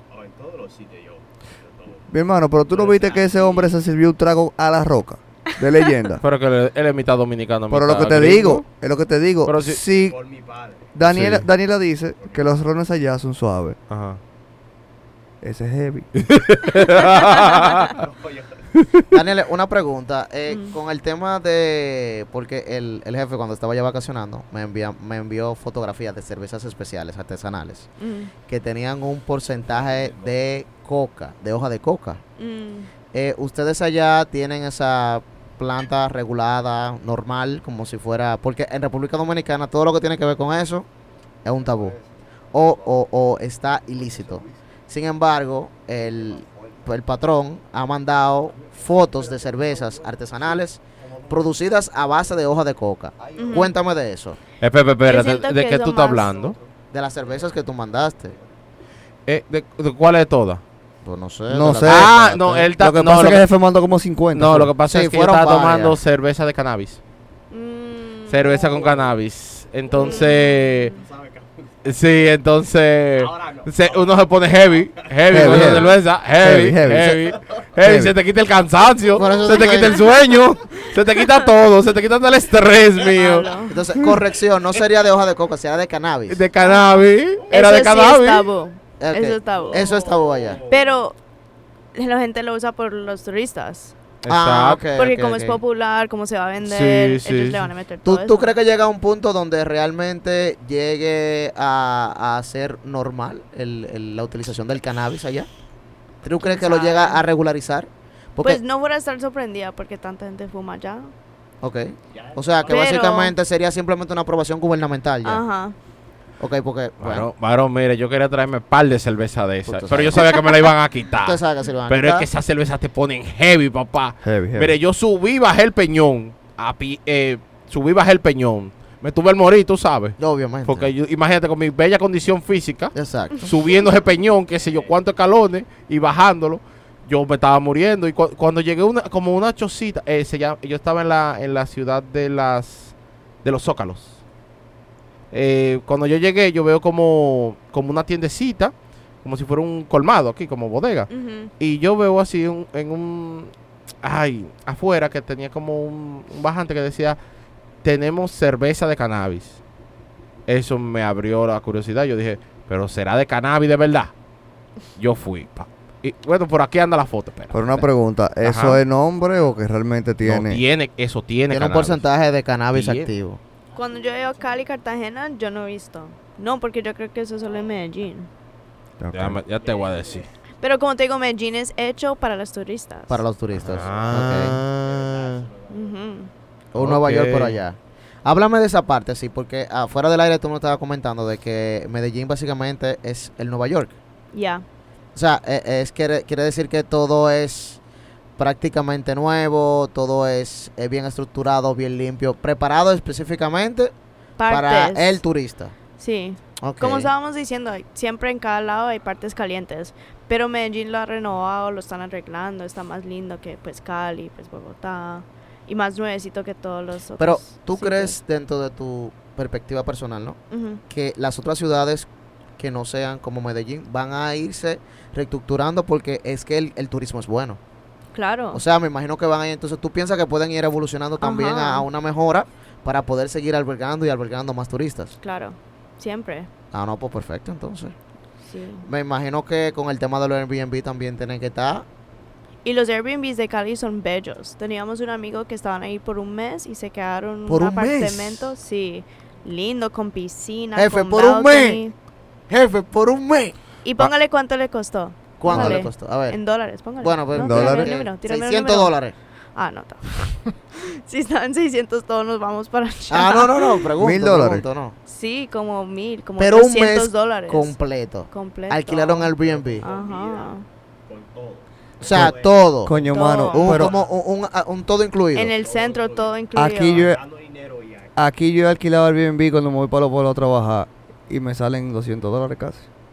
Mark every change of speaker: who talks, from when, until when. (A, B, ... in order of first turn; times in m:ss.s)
0:00.1-0:02.2 A
0:02.1-0:06.2 B
0:02.7-0:03.7 A
0:06.2-0:08.6 C
0:07.7-0:10.2 B
0:09.4-0:09.8 C
0:09.9-0:11.0 A
0:11.0-0:13.8 B
0:11.1-0:11.5 C
0:12.2-0:12.6 A
0:13.9-0:14.2 C
0:15.4-0:16.1 B
0:16.2-0:18.0 C
0:17.2-0:18.6 A
0:17.3-0:17.8 D
0:19.1-0:27.9 E
0:20.5-0:20.8 D
0:28.0-0:28.3 D
0:28.5-0:32.2 E
0:29.6-0:30.3 A
0:32.4-0:32.9 D
0:33.1-0:40.9 E
0:41.4-0:42.0 E
0:42.5-0:54.4 E
0:46.4-0:46.8 A
0:48.5-0:51.7 A
0:53.2-0:53.7 A
0:53.4-0:53.7 D
0:54.6-0:56.6 C
0:55.0-0:56.4 D
0:56.2-0:57.7 A
0:56.9-0:58.4 E
0:59.3-1:00.6 C
1:01.0-1:02.6 E
1:01.5-1:04.7 B
1:01.8-1:03.4 C
1:04.3-1:07.0 C
1:04.9-1:06.0 E
1:07.5-1:08.7 D
1:08.3-1:10.9 C
1:08.6-1:09.1 A
1:09.9-1:12.0 A
1:09.9-1:10.9 D
1:11.8-1:24.1 C
1:13.1-1:15.9 A
1:15.3-1:17.2 B
1:17.0-1:17.6 A
1:17.8-1:18.1 B
1:18.8-1:20.5 A
1:19.2-1:20.0 E
1:23.0-1:24.0 A
1:23.1-1:23.8 D
1:23.7-1:26.4 E
1:24.7-1:25.3 A
1:26.3-1:28.4 C
1:26.6-1:29.9 D
1:29.0-1:30.6 E
1:29.5-1:31.0 A
1:30.7-1:31.2 D
1:31.9-1:34.0 D
1:34.2-1:34.8 C
1:34.3-1:35.6 E
1:35.0-1:38.6 D
1:36.6-1:37.7 C
1:38.0-1:45.5 E
1:46.2-1:48.6 E
1:46.4-1:47.2 D
1:48.4-1:51.1 D
1:51.6-1:55.4 E
1:52.1-1:52.8 A
1:52.7-1:53.4 D
1:55.2-1:55.8 D
1:56.4-1:57.3 E
1:57.0-2:24.2 C
1:59.7-2:00.7 E
2:01.2-2:02.3 E
2:04.2-2:04.8 B
2:10.2-2:10.9 E
2:12.9-2:13.5 E
2:13.7-2:15.0 A
2:25.3-2:37.2 C
2:31.1-2:31.5 D
2:37.8-2:39.6 C
2:40.5-2:44.1 C
2:45.0-2:47.9 C
2:47.5-2:50.6 B
2:48.4-2:48.8 C
2:50.2-2:52.0 C
2:51.5-2:53.4 E
2:52.7-2:53.1 C
2:53.7-2:54.6 A
2:53.8-2:58.3 D
2:59.0-2:59.4 B
2:59.1-3:00.3 C
2:59.5-3:00.3 A
3:00.6-3:03.2 D
3:03.1-3:04.6 E
3:03.5-3:05.5 C
3:03.6-3:06.0 A
3:05.7-3:06.3 D
3:06.7-3:13.9 E
3:06.8-3:07.6 C
3:14.3-3:14.6 D
3:15.2-3:17.8 E
3:18.4-3:23.9 E
3:24.4-3:25.2 D
3:24.5-3:25.7 E
3:26.0-3:38.2 D
3:26.6-3:27.1 E
3:37.2-3:40.4 E
3:40.5-3:40.8 D
3:40.9-3:47.6 E
3:48.1-3:48.6 D
3:48.5-3:55.2 E
3:51.2-3:51.9 D
3:55.2-3:56.5 D
3:56.7-3:58.0 E
3:58.5-3:58.9 D
3:58.9-4:01.8 E
4:02.6-4:11.9 D
4:07.5-4:08.5 E
4:10.8-4:11.8 E
4:12.5-4:14.1 E
4:13.8-4:19.0 D
4:15.4-4:16.4 E
4:15.5-4:15.9 B
4:17.0-4:19.2 E
4:17.3-4:18.0 B
4:19.6-4:23.9 D
4:23.1-4:25.0 E
4:24.0-4:24.6 B
4:25.1-4:27.8 D
4:26.4-4:29.8 E
4:28.3-4:30.6 D
4:29.4-4:30.6 A
4:31.1-4:34.2 A
4:32.0-4:35.5 E
4:32.8-4:33.9 B
4:33.1-4:33.7 D
4:35.3-4:37.1 D
4:35.6-4:36.4 A
4:36.6-4:37.2 B
4:36.9-4:38.1 A
4:38.2-4:42.9 B